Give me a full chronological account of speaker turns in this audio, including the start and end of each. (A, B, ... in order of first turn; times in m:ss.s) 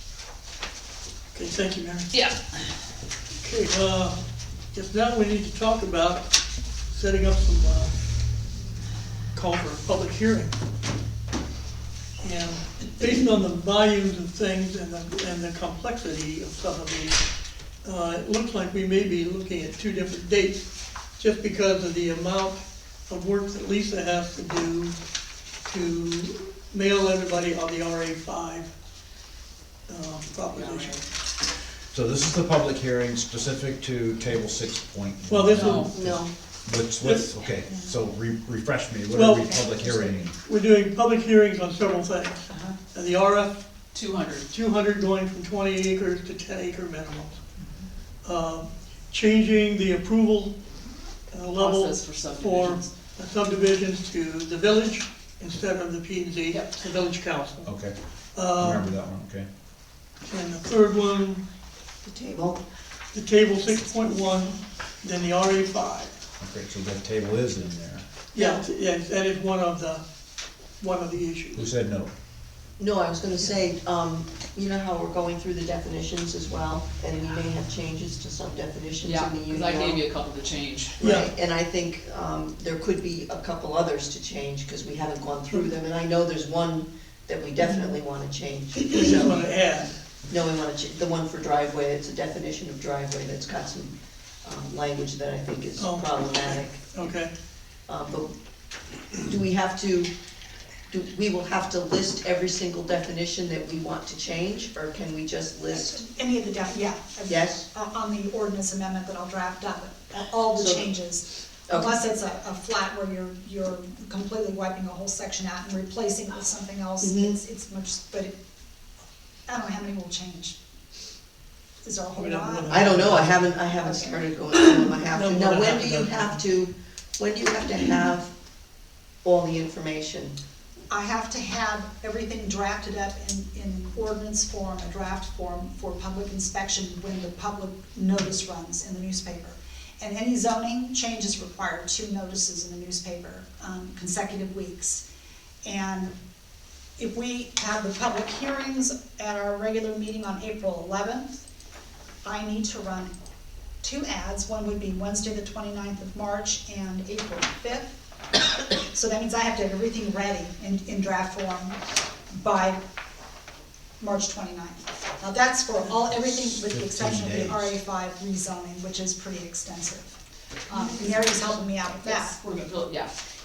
0:01.3-0:02.1 A
0:02.1-0:02.7 B
0:03.4-0:04.2 A
0:04.7-0:06.3 A
0:06.9-0:07.9 A
0:09.3-0:10.6 A
0:12.2-0:17.2 A
0:17.8-0:20.6 A
0:21.2-0:24.9 A
0:25.6-0:28.7 A
0:29.9-0:31.0 A
0:30.5-0:31.0 B
0:31.9-0:40.4 C
0:35.3-0:36.2 A
0:35.5-0:35.9 B
0:35.9-0:36.3 D
0:37.0-0:37.2 A
0:39.1-0:43.6 A
0:42.5-0:42.8 E
0:43.9-0:44.5 B
0:44.5-0:47.4 A
0:48.2-0:50.6 A
0:51.3-0:57.7 A
0:51.6-0:52.9 B
0:56.5-0:56.9 B
0:57.6-0:57.9 C
0:58.3-0:58.9 A
0:58.5-0:59.5 C
1:00.3-1:01.4 A
1:02.0-1:02.6 D
1:03.1-1:06.2 A
1:06.4-1:08.0 C
1:08.3-1:10.0 A
1:08.3-1:08.6 D
1:10.8-1:11.6 A
1:11.5-1:12.1 C
1:12.8-1:20.0 D
1:19.0-1:20.9 B
1:21.0-1:21.3 A
1:21.0-1:29.4 D
1:27.6-1:27.9 A
1:28.7-1:30.0 A
1:30.3-1:36.8 D
1:35.8-1:37.3 A
1:37.9-1:38.3 D
1:39.2-1:40.1 D
1:40.9-1:46.0 D
1:45.7-1:58.3 E
1:47.3-1:47.7 D
1:50.5-1:50.9 D
1:51.7-1:52.0 D
1:57.0-1:57.4 D
1:59.5-2:00.6 E
2:01.8-2:02.8 E
2:02.1-2:03.4 A
2:02.7-2:08.3 D
2:03.8-2:04.2 E
2:04.5-2:06.4 A
2:09.2-2:10.4 D
2:10.9-2:25.0 E
2:25.6-2:26.1 E
2:27.0-2:31.4 E
2:32.2-2:33.1 E
2:33.8-2:38.0 E
2:38.7-2:41.8 E
2:42.3-2:42.8 E
2:44.0-2:50.1 E
2:46.6-2:47.7 C
2:50.7-2:52.4 E
2:50.7-2:53.1 B